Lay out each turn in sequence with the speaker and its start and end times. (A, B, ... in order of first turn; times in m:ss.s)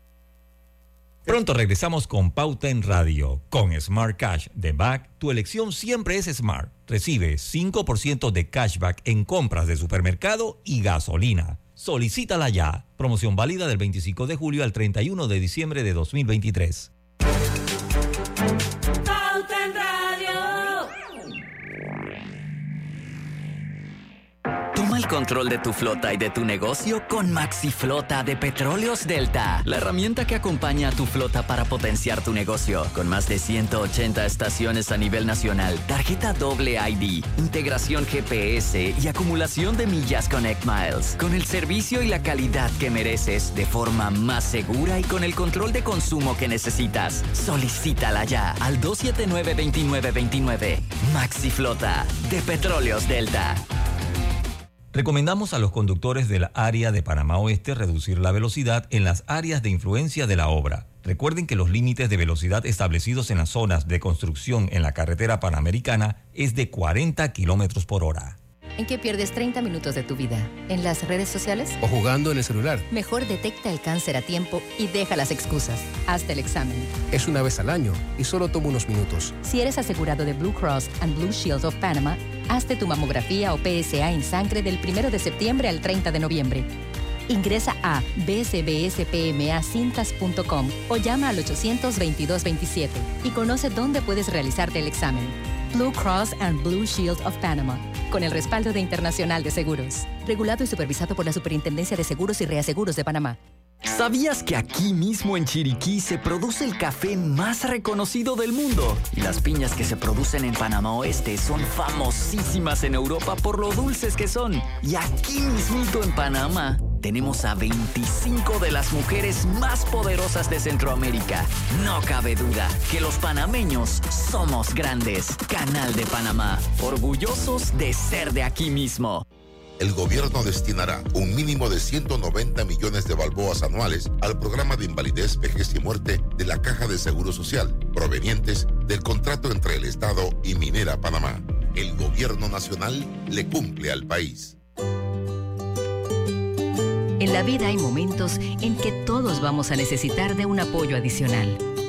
0:01.3-0:16.9 A
0:24.7-0:53.6 B
0:54.9-1:08.4 A
1:08.8-1:11.8 C
1:11.8-1:12.9 D
1:12.9-1:16.9 C
1:17.1-1:19.4 D
1:19.4-1:26.7 C
1:27.3-1:43.4 C
1:43.8-2:09.2 B
2:09.8-2:24.6 E
2:27.2-2:31.6 C